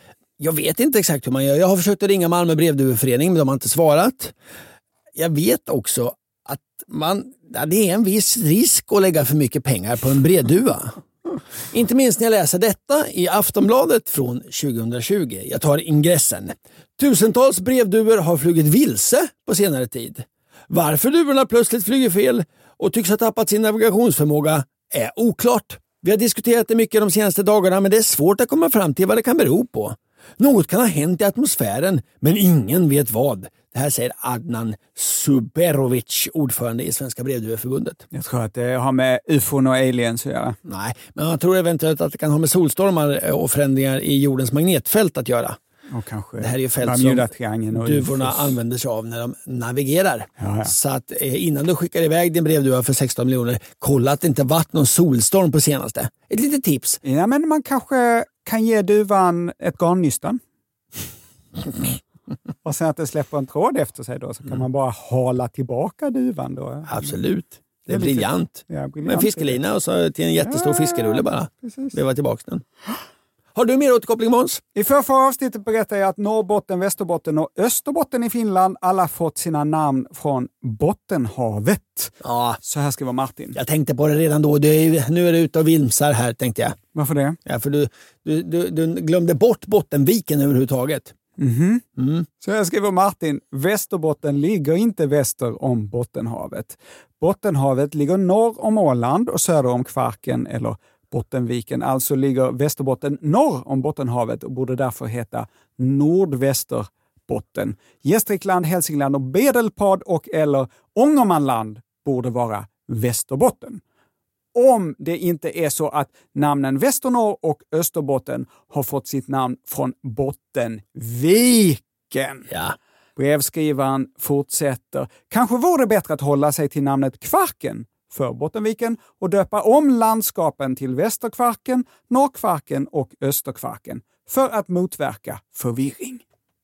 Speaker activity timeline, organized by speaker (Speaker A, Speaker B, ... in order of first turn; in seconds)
Speaker A: 0.4-4.3, 5.2-11.0, 11.7-38.0, 40.6-45.6, 46.4-57.0, 66.9-72.6, 73.5-74.6, 82.2-82.6, 83.5-86.8, 87.5-91.1, 92.0-92.3, 122.5-122.8
Speaker B: 38.1-40.6, 45.9-48.6, 50.4-50.7, 57.0-60.4, 62.6-67.1, 67.9-69.6, 70.4-72.0, 74.7-83.6, 86.9-87.4, 91.4-91.8, 92.4-113.8, 114.5-122.5, 123.2-136.2